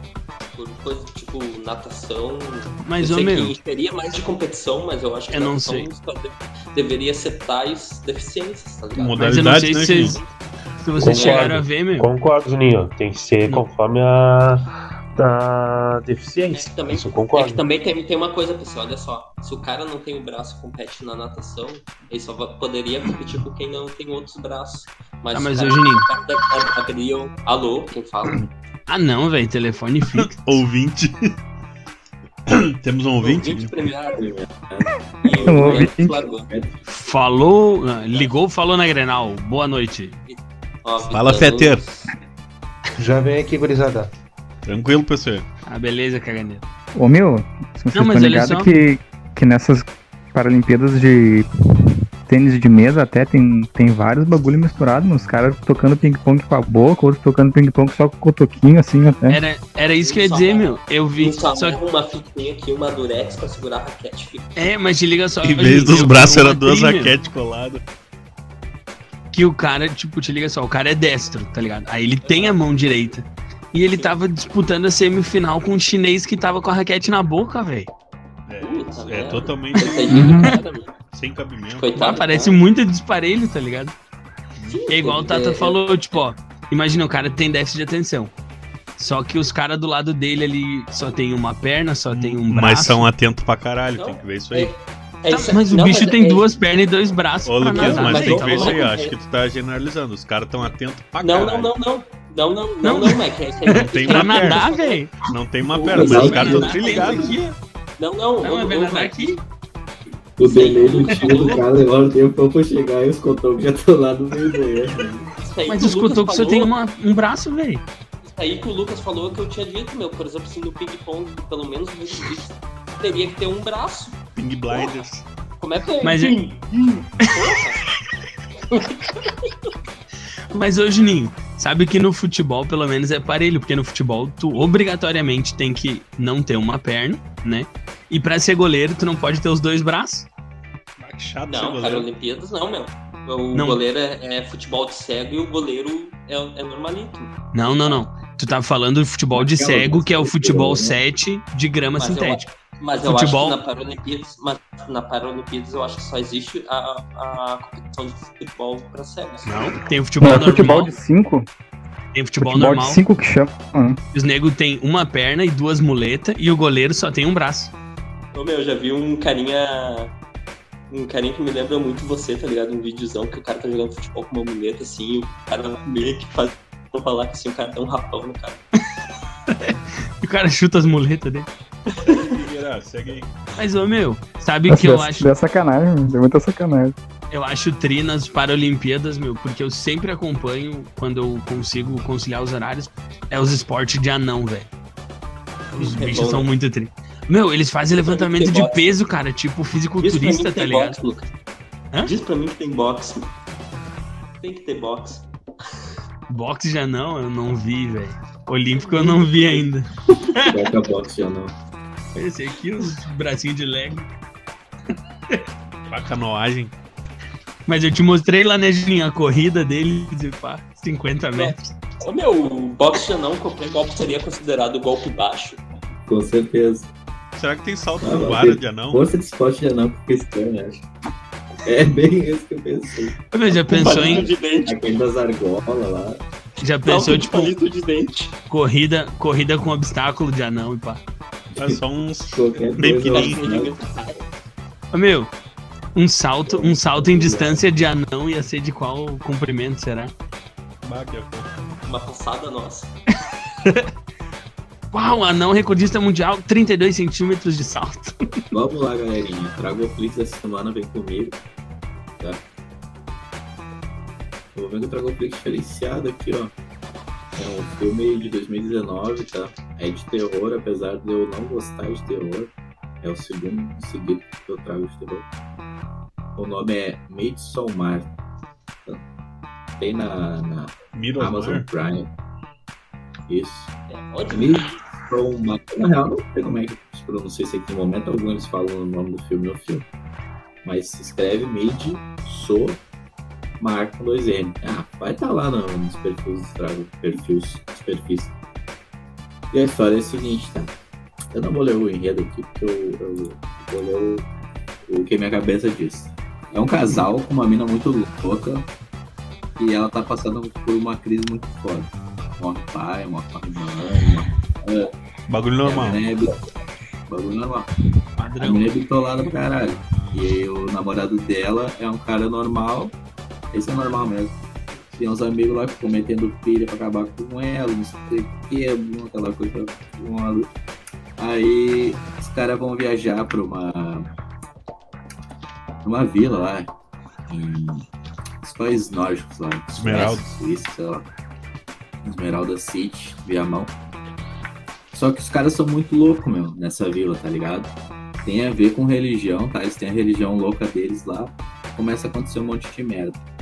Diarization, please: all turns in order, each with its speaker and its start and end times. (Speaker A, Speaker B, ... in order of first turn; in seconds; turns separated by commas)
Speaker A: 0.5-9.2, Speaker B: 2.8-3.5, Speaker B: 5.3-5.9, Speaker C: 8.9-10.2, Speaker B: 9.2-10.2, Speaker B: 10.8-12.1, Speaker D: 11.0-17.6, Speaker A: 11.0-11.5, Speaker A: 16.5-28.4, Speaker B: 25.3-26.1, Speaker B: 28.9-30.6, Speaker C: 30.2-31.4, Speaker C: 32.5-33.7, Speaker A: 33.2-34.2, Speaker E: 34.1-35.9, Speaker A: 35.2-36.5, Speaker F: 35.3-36.2, Speaker E: 36.5-36.8, Speaker B: 36.9-40.2, Speaker A: 40.2-42.1, Speaker C: 41.0-41.8, Speaker D: 43.0-44.1, Speaker C: 44.6-45.5, Speaker B: 45.7-46.6, Speaker F: 46.9-51.5, Speaker B: 47.9-48.7, Speaker F: 52.2-59.4, Speaker B: 59.3-61.8, Speaker A: 60.0-64.5, Speaker B: 64.5-67.1, Speaker C: 65.4-67.8, Speaker B: 69.3-77.9, Speaker A: 72.2-72.6, Speaker C: 78.5-80.5, Speaker A: 78.6-80.9, Speaker B: 79.8-80.2, Speaker F: 80.1-80.5, Speaker C: 81.1-81.9, Speaker A: 81.8-82.6, Speaker B: 81.9-83.9, Speaker C: 84.6-84.8, Speaker A: 84.7-86.2, Speaker B: 84.9-88.3, Speaker B: 89.0-93.1, Speaker C: 92.1-94.7, Speaker A: 94.0-96.5, Speaker B: 95.3-98.8, Speaker C: 97.4-101.7, Speaker A: 97.7-99.1, Speaker A: 101.2-105.0, Speaker B: 102.8-105.1, Speaker C: 103.7-104.6, Speaker C: 105.3-107.4, Speaker A: 105.7-107.4, Speaker B: 105.9-107.5, Speaker E: 106.0-106.7, Speaker A: 108.0-109.3, Speaker B: 108.4-109.4, Speaker E: 110.4-115.3, Speaker A: 110.4-111.8, Speaker B: 111.0-111.6, Speaker A: 115.3-116.7, Speaker B: 115.7-117.8, Speaker A: 118.2-124.2, Speaker C: 124.3-125.2, Speaker A: 125.6-128.0, Speaker B: 126.0-126.4, Speaker A: 128.7-129.0, Speaker B: 130.5-140.3, Speaker C: 141.0-142.1, Speaker A: 141.5-148.0, Speaker B: 143.5-143.8, Speaker B: 147.5-152.5, Speaker E: 149.3-151.0, Speaker A: 152.0-159.6, Speaker B: 153.0-153.6, Speaker B: 159.4-160.9, Speaker F: 160.2-161.5, Speaker B: 162.1-163.0, Speaker F: 162.4-164.0, Speaker B: 164.1-167.7, Speaker A: 168.3-170.1, Speaker A: 170.9-178.6, Speaker B: 179.5-181.5, Speaker A: 181.9-182.4, Speaker C: 182.1-183.3, Speaker B: 183.6-185.3, Speaker F: 184.7-186.9, Speaker B: 187.3-194.7, Speaker A: 195.6-196.5, Speaker B: 195.8-201.0, Speaker A: 198.0-199.0, Speaker A: 200.0-201.3, Speaker A: 202.0-203.3, Speaker A: 204.4-205.2, Speaker B: 206.3-210.5, Speaker A: 208.8-209.6, Speaker E: 210.4-211.5, Speaker B: 212.1-214.1, Speaker C: 215.9-216.7, Speaker B: 217.7-221.7, Speaker A: 221.3-225.6, Speaker E: 226.1-226.9, Speaker C: 227.3-229.0, Speaker E: 228.0-230.9, Speaker E: 231.6-236.2, Speaker B: 233.3-234.3, Speaker A: 233.7-234.8, Speaker B: 236.6-237.5, Speaker A: 236.8-238.3, Speaker B: 238.5-241.0, Speaker E: 241.5-243.8, Speaker C: 241.6-243.5, Speaker A: 243.0-244.2, Speaker B: 244.9-245.3, Speaker B: 245.9-250.1, Speaker E: 246.5-247.7, Speaker C: 250.8-251.5, Speaker A: 251.8-252.9, Speaker B: 254.9-258.3, Speaker E: 258.5-261.4, Speaker E: 264.5-266.5, Speaker E: 267.4-272.5, Speaker E: 273.0-275.2, Speaker E: 276.4-278.1, Speaker E: 279.8-282.1, Speaker C: 280.9-281.7, Speaker E: 283.3-283.7, Speaker A: 283.9-284.8, Speaker E: 284.3-289.9, Speaker E: 290.6-292.8, Speaker E: 293.6-298.3, Speaker E: 299.5-300.7, Speaker E: 301.3-304.2, Speaker E: 304.9-308.7, Speaker E: 309.6-314.9, Speaker C: 315.3-316.0, Speaker E: 315.6-316.4, Speaker E: 317.1-317.7, Speaker B: 318.2-318.7, Speaker E: 318.4-322.9, Speaker E: 323.5-324.4, Speaker E: 324.9-330.5, Speaker E: 331.2-334.1, Speaker E: 335.8-336.7, Speaker E: 337.3-337.9, Speaker E: 338.4-341.1, Speaker C: 339.7-340.3, Speaker E: 342.0-343.7, Speaker E: 344.9-347.7, Speaker E: 348.2-353.2